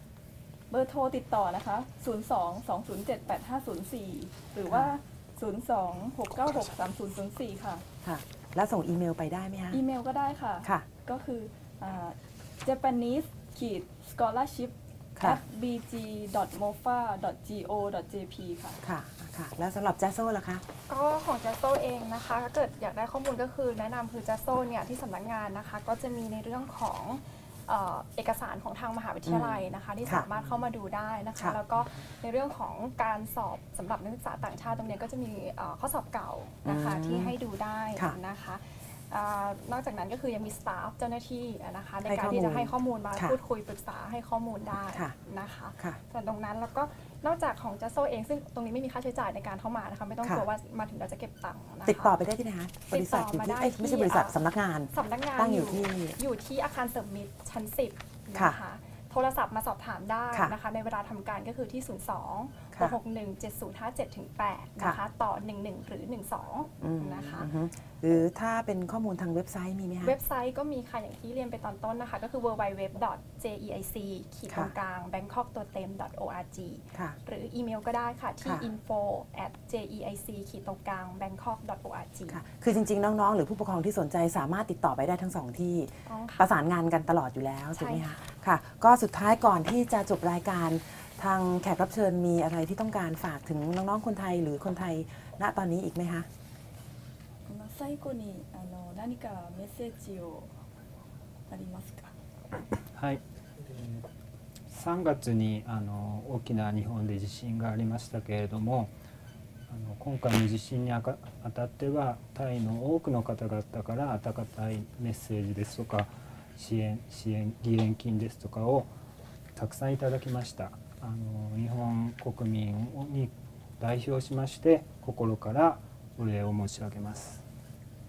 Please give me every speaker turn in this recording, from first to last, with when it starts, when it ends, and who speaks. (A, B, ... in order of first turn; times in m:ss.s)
0:00.7-0:07.8 A
0:08.0-0:09.8 B
0:09.7-0:18.8 A
0:18.8-0:20.6 B
0:20.9-0:52.2 C
0:29.3-0:30.4 B
0:31.4-0:32.0 B
0:36.6-0:37.3 B
0:42.1-0:43.4 B
0:51.8-0:56.2 B
0:52.9-0:54.4 C
0:54.9-1:07.5 C
1:06.8-1:10.1 B
1:10.0-1:22.4 C
1:22.3-1:36.3 B
1:26.1-1:26.5 C
1:27.8-1:28.1 C
1:37.5-1:40.5 A
1:41.5-1:42.1 A
1:42.8-1:44.0 D
1:44.7-1:48.9 D
1:49.7-1:58.9 D
1:59.6-2:07.4 D